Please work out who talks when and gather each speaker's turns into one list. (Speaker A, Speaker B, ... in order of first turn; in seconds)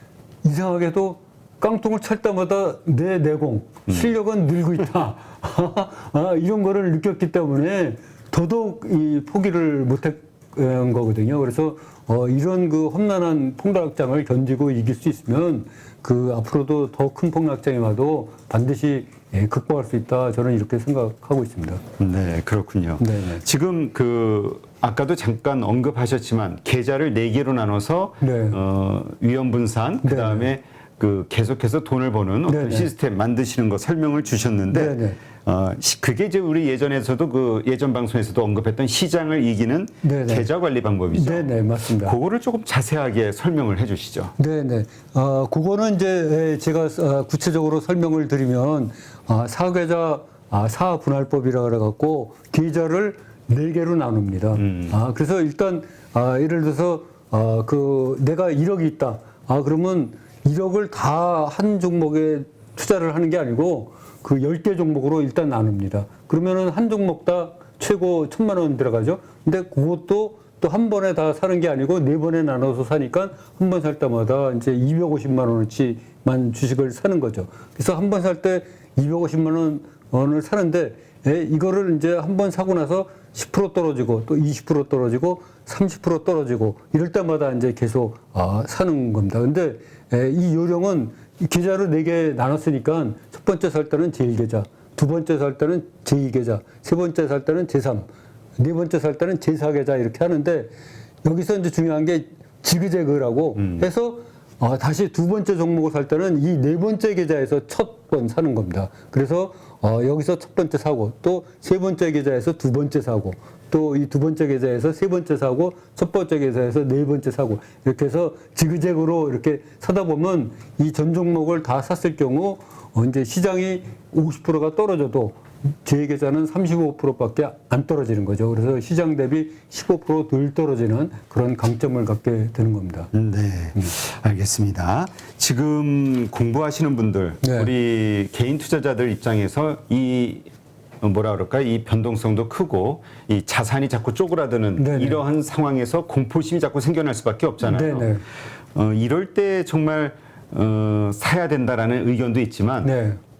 Speaker A: 0.4-21.8, 23.0-23.4, 28.2-28.6, 30.0-30.5, 32.5-32.9, 34.7-35.2, 40.0-40.5, 41.1-42.1, 44.4-100.7, 101.2-133.1, 137.4-137.7, 144.8-145.2, 147.6-148.2, 152.8-153.2
Speaker B: 22.0-44.3, 54.5-55.0, 103.6-103.8, 133.1-140.5, 141.0-148.1, 148.7-152.9